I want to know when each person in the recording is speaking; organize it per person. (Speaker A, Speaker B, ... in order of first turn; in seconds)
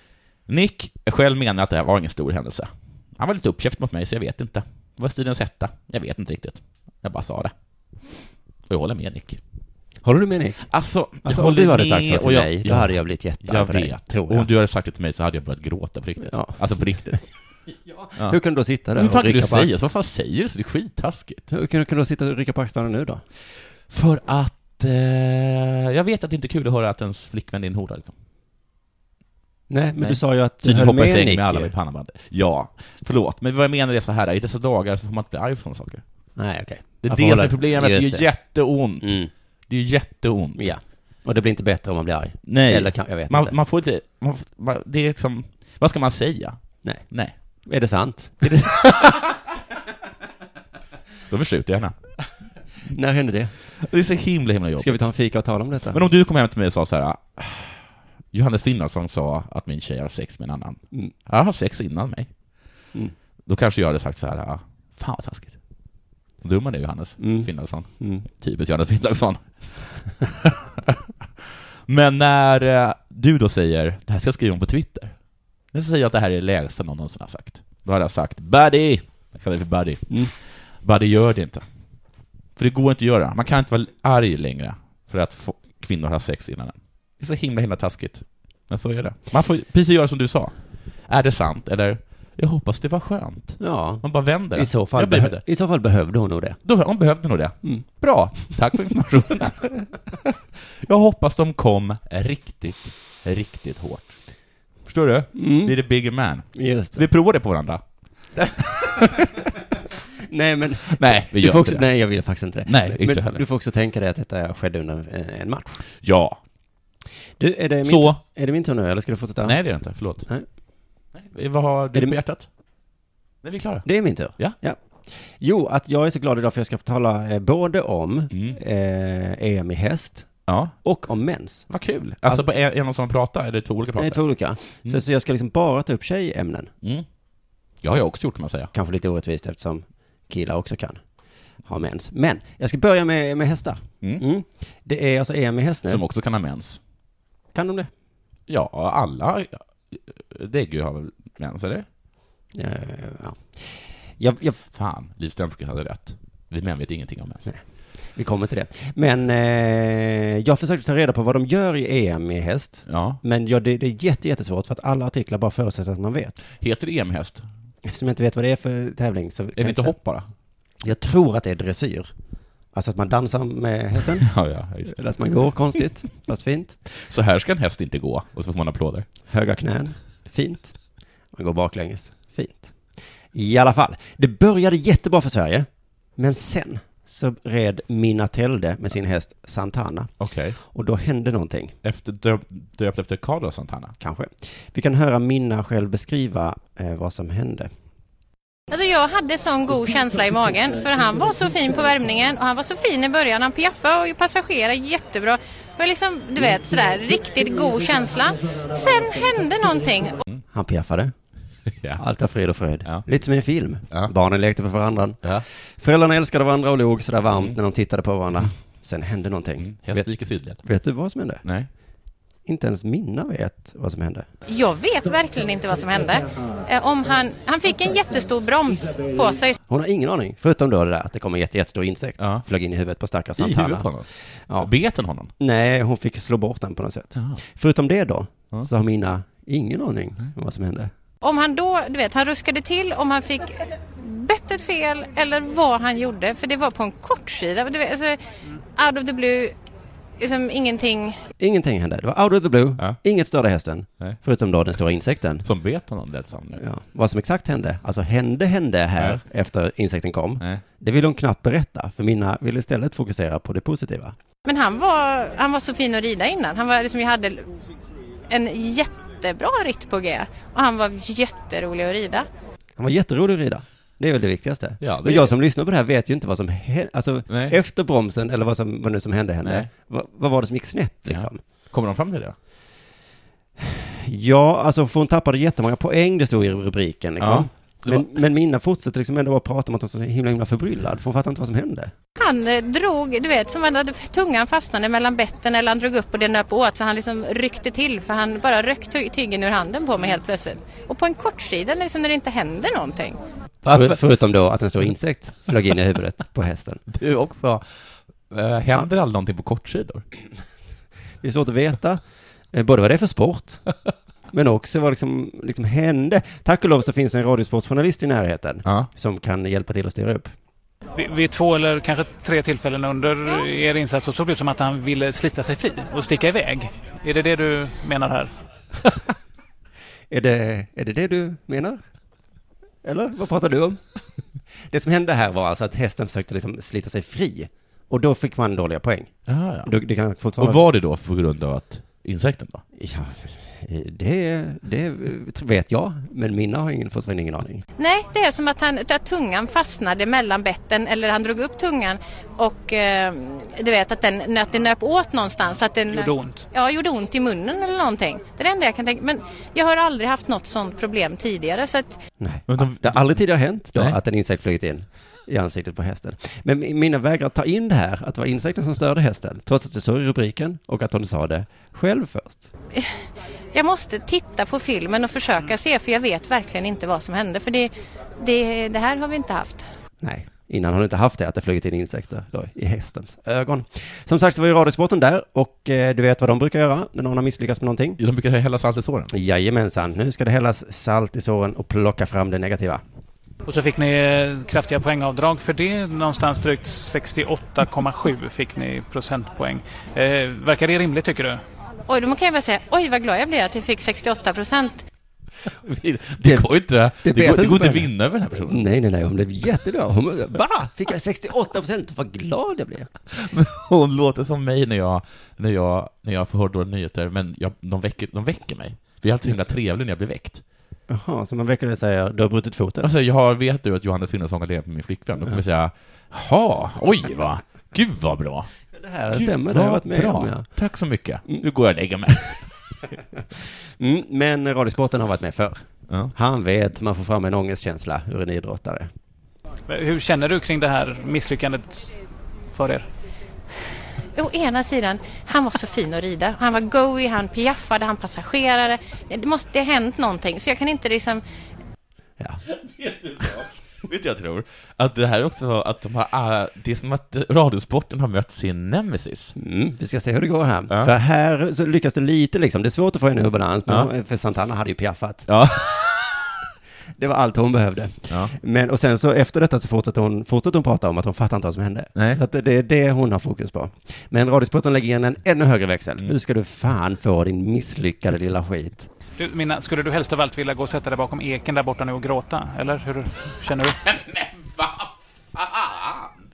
Speaker A: 0.5-7.5, 8.7-9.4, 10.7-17.2, 19.0-21.5, 23.9-28.1, 30.0-36.0, 37.0-40.7, 42.5-47.3, 48.4-49.2, 51.3-52.0, 53.8-55.1, 55.9-62.3, 63.5-65.5, 66.4-75.2, 75.7-80.3, 80.8-81.7, 82.6-95.4, 96.6-104.2, 104.8-107.8, 108.6-109.3, 110.9-111.9, 112.7-113.4, 116.0-116.4, 117.8-118.2, 119.4-120.3, 121.1-122.5, 123.4-124.6, 128.3-128.6, 130.5-130.8, 131.7-134.2, 137.8-138.7, 145.9-146.8, 148.5-151.9, 154.7-157.4, 162.9-163.2, 166.6-167.5, 169.6-170.3, 174.2-175.0, 176.9-179.1, 190.2-190.6, 191.8-193.9, 219.6-220.6, 221.4-221.7, 232.2-232.4, 233.4-235.3, 255.4-256.6, 274.8-275.3, 277.3-277.6, 279.4-279.7, 281.1-282.4, 287.2-288.1, 303.6-304.0, 306.9-307.6, 308.3-310.0, 318.6-318.9, 339.3-339.7, 340.4-342.6, 362.5-363.2, 388.0-389.1, 405.6-408.6, 413.1-420.4, 422.8-428.5, 429.1-432.4, 452.5-459.3, 465.3-466.3, 471.9-472.2, 483.8-486.2
Speaker B: 10.0-10.7, 11.2-14.5, 16.2-17.2, 17.9-19.7, 21.5-23.2, 29.7-31.7, 36.4-38.3, 39.0-39.3, 40.6-43.6, 47.7-49.2, 52.8-53.6, 54.8-56.0, 67.2-68.3, 93.6-96.6, 105.3-105.8, 106.5-107.0, 110.3-115.8, 117.4-119.6, 123.8-130.3, 130.8-131.7, 134.0-136.7, 138.7-141.0, 141.6-146.0, 147.5-147.9, 152.5-154.6, 158.1-166.4, 167.8-170.0, 170.8-172.1, 172.7-174.3, 174.9-176.8, 179.3-180.8, 181.3-182.8, 183.3-191.8, 194.0-197.7, 210.5-211.1, 212.0-220.1, 220.6-221.4, 222.5-224.3, 229.7-234.7, 235.4-240.9, 251.4-255.5, 256.6-264.1, 272.8-281.4, 283.6-291.9, 303.7-306.8, 311.2-312.0, 312.5-313.6, 314.3-320.3, 330.1-331.8, 332.8-333.8, 334.7-340.6, 342.8-347.6, 362.2-372.5, 380.0-388.0, 389.1-392.8, 407.0-407.9, 408.5-412.9, 420.9-422.9, 428.7-430.5, 433.4-438.9, 459.4-465.3, 467.0-478.9
Speaker C: 198.7-210.2, 224.5-229.6, 241.2-248.2, 248.8-249.6, 250.2-251.2, 264.4-267.5, 268.3-272.3, 292.2-303.2, 347.8-362.0, 373.5-379.6, 401.9-404.8, 444.1-451.2
Speaker D: 320.9-328.3, 355.9-356.4, 393.4-401.4, 439.7-441.9, 442.5-442.9, 479.2-483.8